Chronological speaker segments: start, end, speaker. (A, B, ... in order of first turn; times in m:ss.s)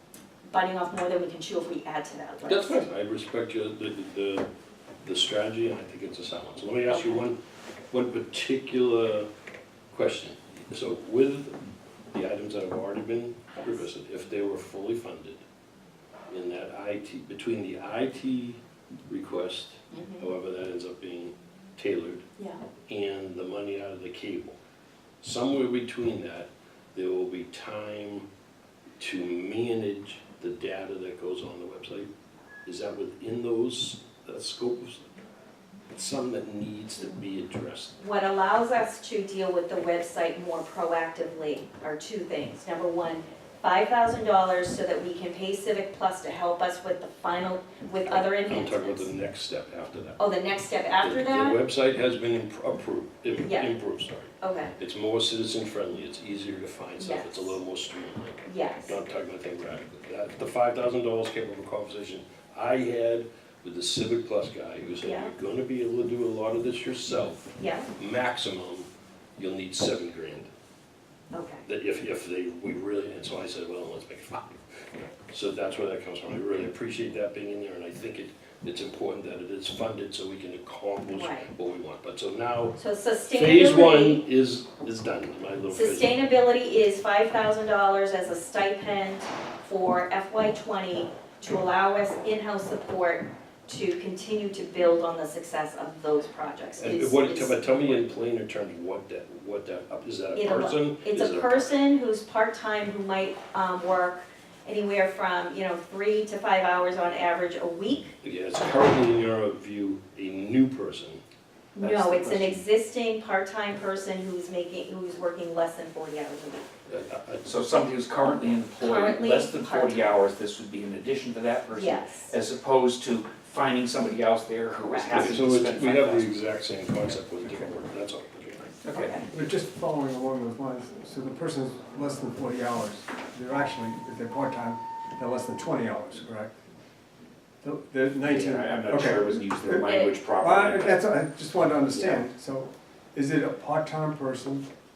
0:00.5-0:02.8 A
0:02.4-0:04.5 B
0:05.0-0:07.4 B
0:06.9-0:07.2 A
0:07.9-0:09.3 B
0:09.9-0:11.6 B
0:12.1-0:15.4 B
0:16.3-0:22.3 B
0:19.9-0:20.3 A
0:22.9-0:24.6 B
0:25.2-0:28.2 B
0:29.0-0:32.1 B
0:32.6-0:35.1 B
0:35.9-0:38.0 B
0:38.0-0:49.1 A
0:48.0-0:50.2 B
0:50.2-0:51.6 A
0:51.0-1:10.5 B
0:53.3-0:53.8 A
0:54.4-0:54.7 A
0:57.0-0:57.6 A
0:58.4-0:59.0 A
1:05.0-1:05.3 A
1:07.6-1:07.9 A
1:11.3-1:11.6 A
1:11.6-1:14.6 B
1:15.2-1:26.2 B
1:21.1-1:21.5 A
1:22.8-1:24.2 A
1:25.7-1:38.1 A
1:36.8-1:41.7 B
1:40.3-1:48.1 A
1:48.2-1:51.2 B
1:51.8-1:56.7 A
1:51.8-1:52.6 C
1:56.9-1:57.5 B
1:57.4-2:06.4 C
1:58.8-2:00.2 A
2:01.7-2:02.3 A
2:04.8-2:05.3 A
2:05.0-2:08.8 B
2:08.9-2:09.2 C
2:08.9-2:16.6 D
2:08.9-2:09.2 A
2:17.6-2:24.7 D
2:18.3-2:21.0 C
2:19.8-2:20.2 A
2:21.9-2:22.2 C